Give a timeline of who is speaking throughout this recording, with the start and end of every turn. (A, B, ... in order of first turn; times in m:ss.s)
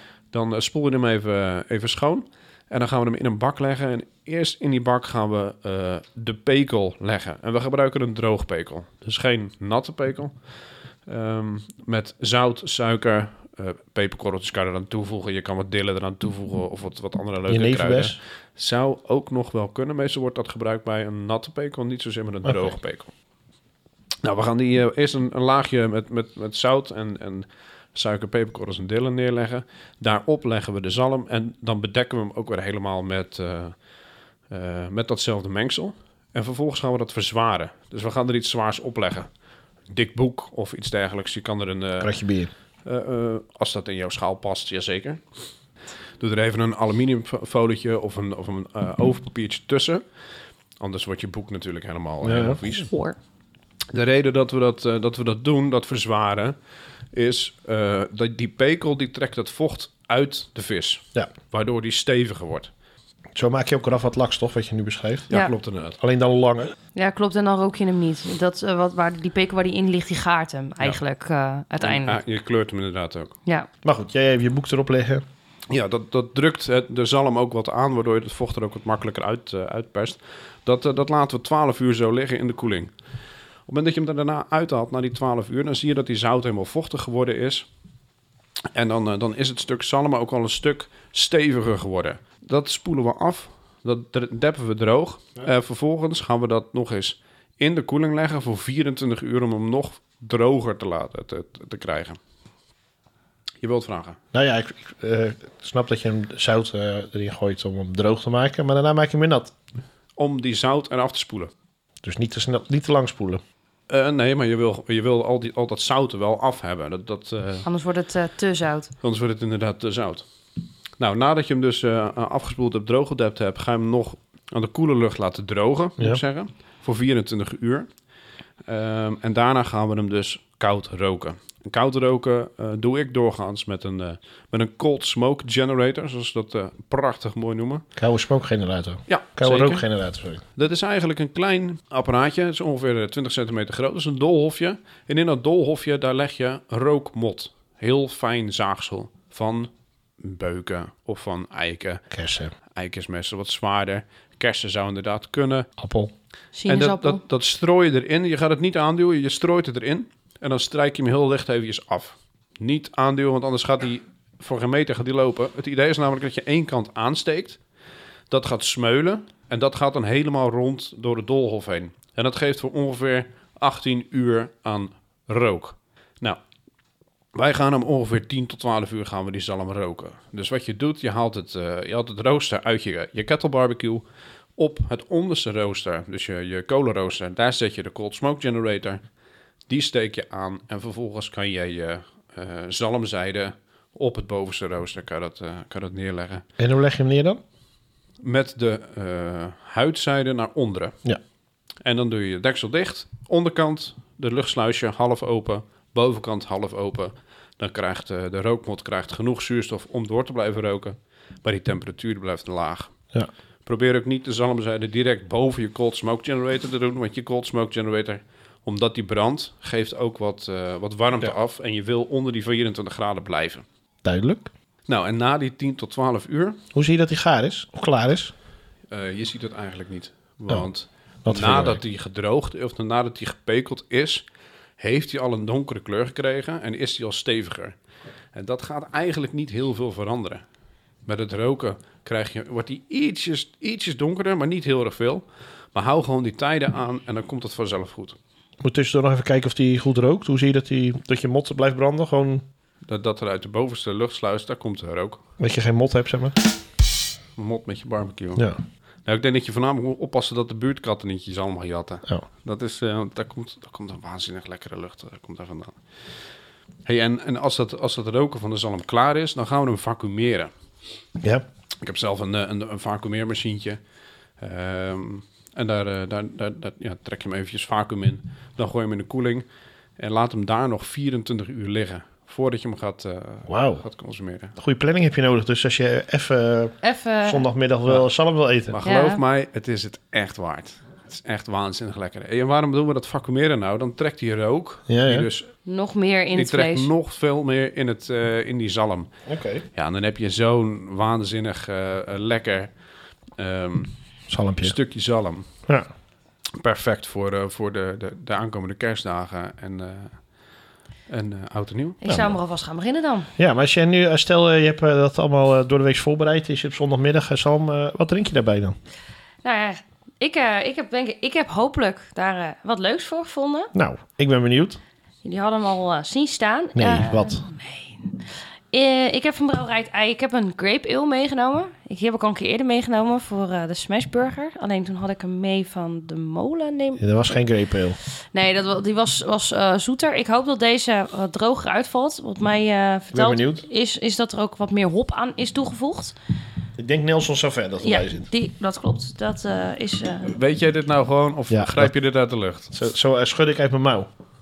0:00.3-0:10.4 A
0:11.0-0:23.1 A
0:17.5-0:18.2 B
0:22.4-0:22.8 B
0:24.2-0:33.8 A
0:34.5-0:39.3 A
0:39.9-0:42.1 A
0:42.0-0:42.5 B
0:42.8-0:45.2 A
0:46.2-0:50.0 A
0:50.8-0:52.9 A
0:52.2-0:52.6 B
0:52.8-0:53.2 C
0:53.9-0:56.6 A
0:57.1-1:02.7 A
1:03.4-1:05.3 B
1:05.3-1:06.0 A
1:06.0-1:06.7 B
1:06.9-1:12.2 C
1:11.8-1:13.4 A
1:13.8-1:15.2 B
1:15.7-1:22.9 A
1:23.7-1:27.6 A
1:28.7-1:42.2 A
1:43.6-1:44.2 A
1:44.3-1:49.5 B
1:50.2-1:51.5 A
1:52.0-1:53.4 B
1:53.9-1:57.6 A
1:57.6-1:58.9 C
1:59.0-2:00.3 A
2:01.0-2:07.9 A
2:08.6-2:17.8 A
2:18.0-2:20.4 B
2:19.1-2:19.9 A
2:20.6-2:32.0 A
2:32.1-2:32.5 B
2:32.7-2:35.7 A
2:35.8-2:36.1 B
2:36.5-2:37.2 C
2:36.7-2:47.6 A
2:48.3-2:56.4 A
2:57.3-3:04.0 A
3:04.6-3:09.0 A
3:09.7-3:16.4 A
3:16.6-3:17.4 B
3:18.2-3:21.0 A
3:21.8-3:32.9 A
3:33.6-3:43.6 A
3:44.0-3:44.5 B
3:44.9-3:46.6 A
3:46.7-3:48.3 B
3:48.9-3:54.2 A
3:51.2-3:51.8 B
3:54.8-3:57.7 A
3:58.3-4:00.4 A
4:01.1-4:08.2 A
4:08.6-4:12.4 B
4:12.9-4:15.2 A
4:15.4-4:16.4 B
4:17.4-4:18.5 A
4:19.1-4:25.8 A
4:26.8-4:30.5 A
4:31.8-4:33.8 A
4:34.4-4:39.4 A
4:40.0-4:44.6 A
4:43.5-4:43.8 B
4:44.6-4:48.8 B
4:46.8-4:47.4 C
4:48.7-4:55.5 A
4:48.8-4:49.2 C
4:54.9-4:55.3 B
4:55.6-4:56.9 C
4:56.4-4:59.1 A
4:59.3-4:59.6 B
4:59.7-5:02.7 A
5:03.4-5:03.9 A
5:04.3-5:04.7 B
5:04.6-5:05.5 A
5:06.6-5:10.2 A
5:11.1-5:12.0 A
5:12.0-5:13.3 C
5:12.1-5:12.3 B
5:13.4-5:18.8 B
5:19.4-5:23.7 C
5:23.7-5:24.8 B
5:25.2-5:28.1 C
5:26.8-5:27.4 B
5:28.7-5:37.1 C
5:37.0-5:38.0 B
5:38.3-5:46.1 C
5:43.1-5:43.6 B
5:46.8-5:48.3 B
5:47.8-5:50.3 C
5:50.2-5:52.7 A
5:51.5-5:51.9 B
5:52.7-5:54.1 B